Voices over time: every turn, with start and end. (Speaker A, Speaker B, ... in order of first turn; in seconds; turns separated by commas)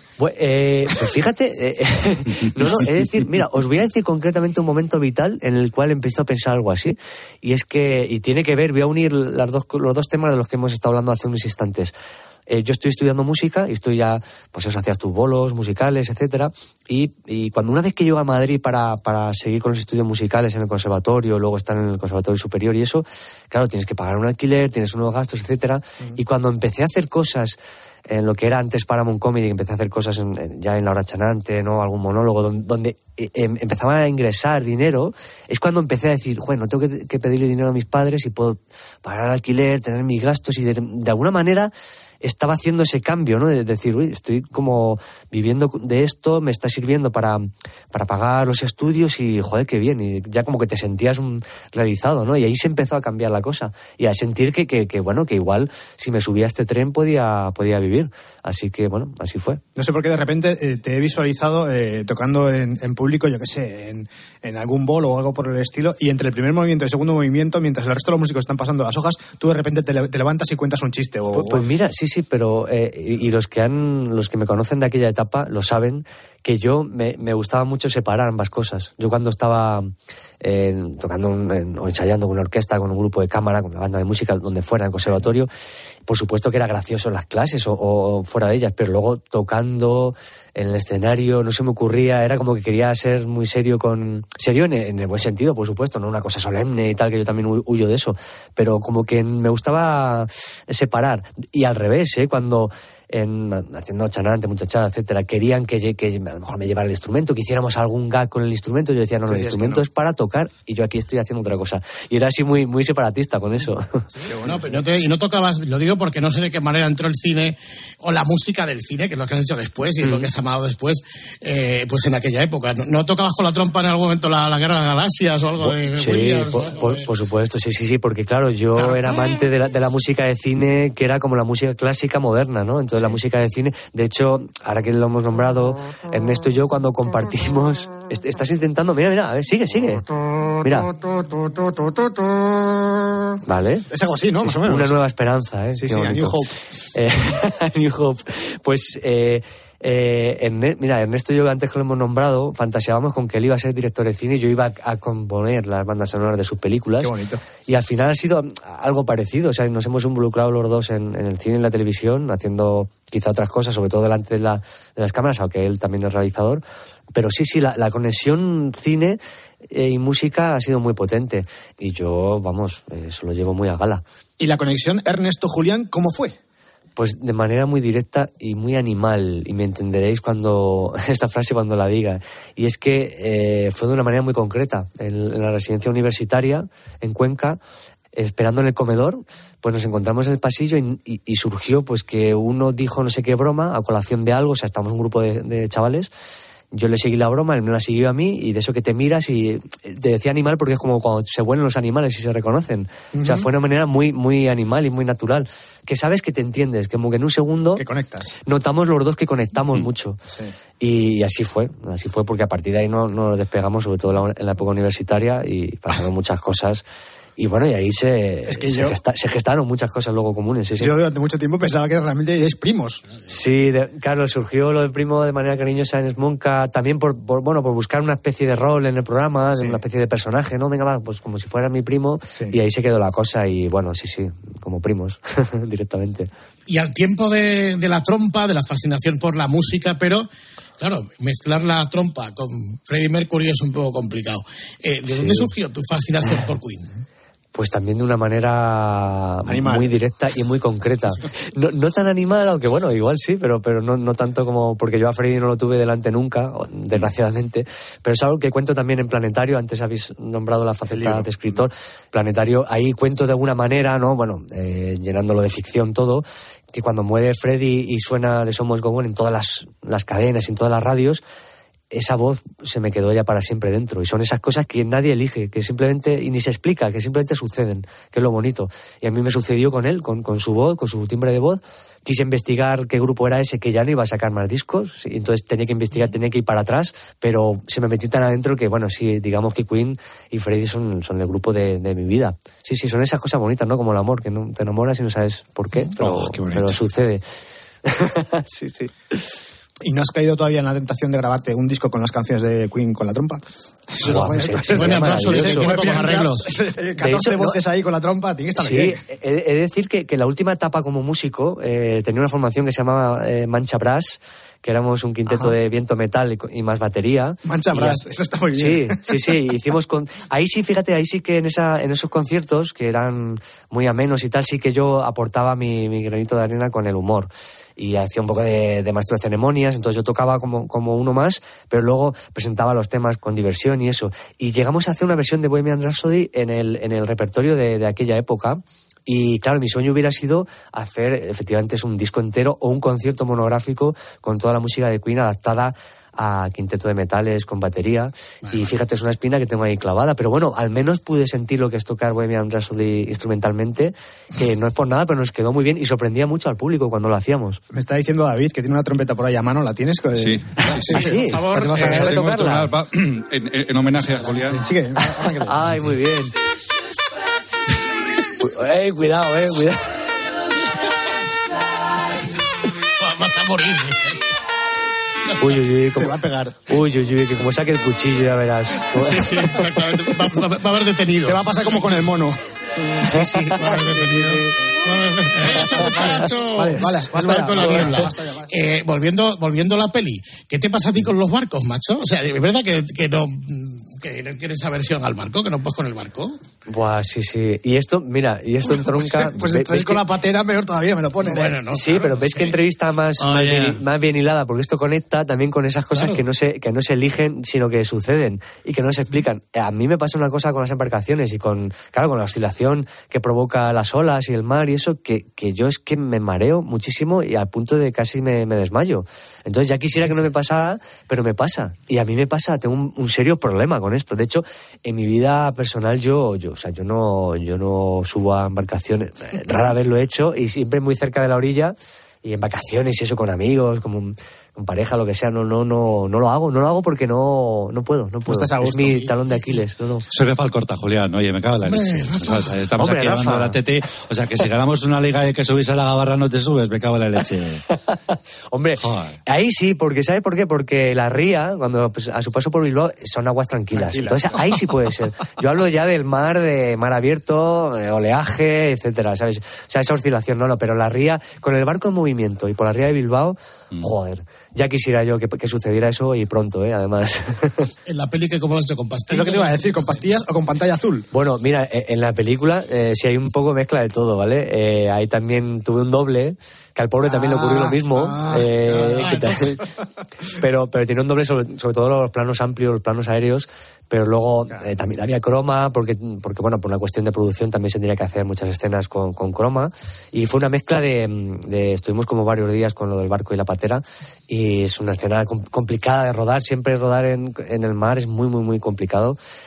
Speaker A: 0.2-11.9, Speaker A: 12.5-59.6, Speaker B: 59.8-71.6, Speaker A: 71.3-85.5, Speaker A: 86.1-114.0, Speaker B: 109.2-109.8, Speaker B: 114.2-114.8, Speaker C: 114.4-127.1, Speaker A: 120.0-120.3, Speaker A: 125.6-140.0, Speaker C: 128.7-129.3, Speaker A: 140.6-140.9, Speaker A: 143.4-143.8, Speaker B: 143.9-144.9, Speaker A: 144.4-157.1, Speaker B: 145.8-146.5, Speaker B: 157.0-157.4, Speaker A: 157.7-174.0, Speaker B: 174.4-176.3, Speaker A: 176.9-187.6, Speaker A: 188.1-196.1, Speaker A: 196.7-207.8, Speaker B: 203.1-203.5, Speaker B: 207.8-208.3, Speaker A: 208.4-210.2, Speaker A: 210.8-216.8, Speaker A: 217.4-220.9, Speaker B: 218.5-218.9, Speaker B: 220.8-223.0, Speaker A: 223.2-236.3, Speaker B: 229.5-229.8, Speaker C: 236.7-240.3, Speaker C: 240.8-247.0, Speaker A: 245.1-245.5, Speaker A: 247.5-271.2, Speaker B: 249.5-249.9, Speaker B: 260.9-261.6, Speaker A: 271.9-297.2, Speaker B: 295.9-296.8, Speaker A: 297.8-299.3, Speaker B: 299.8-309.0, Speaker A: 304.0-305.8, Speaker C: 304.1-306.5, Speaker A: 307.0-307.6, Speaker A: 308.6-318.0, Speaker B: 315.3-315.5, Speaker B: 317.4-319.0, Speaker A: 318.5-357.6, Speaker C: 348.4-348.8, Speaker B: 357.7-362.1, Speaker D: 360.1-360.9, Speaker A: 360.8-362.7, Speaker C: 360.9-362.0, Speaker D: 361.9-364.6, Speaker C: 364.0-364.5, Speaker B: 364.2-365.6, Speaker A: 365.4-366.3, Speaker A: 368.4-369.8, Speaker C: 373.0-374.2, Speaker A: 375.4-376.1, Speaker B: 375.9-376.6, Speaker A: 376.7-379.3, Speaker C: 378.9-382.0, Speaker B: 381.2-382.4, Speaker C: 383.0-396.4, Speaker A: 383.1-384.4, Speaker B: 383.9-384.1, Speaker A: 385.5-386.2, Speaker B: 385.5-388.5, Speaker A: 387.7-388.0, Speaker A: 396.7-400.0, Speaker B: 398.7-401.6, Speaker C: 401.2-402.6, Speaker A: 401.6-440.0, Speaker C: 405.9-406.2, Speaker B: 438.2-438.9, Speaker D: 440.1-447.6, Speaker C: 441.6-442.7, Speaker A: 442.8-443.6, Speaker A: 448.5-467.7, Speaker D: 448.8-449.2, Speaker B: 453.7-454.6, Speaker C: 467.9-470.2, Speaker B: 469.1-471.1, Speaker A: 471.1-479.6, Speaker B: 477.0-479.3, Speaker C: 478.6-479.5, Speaker A: 480.4-499.2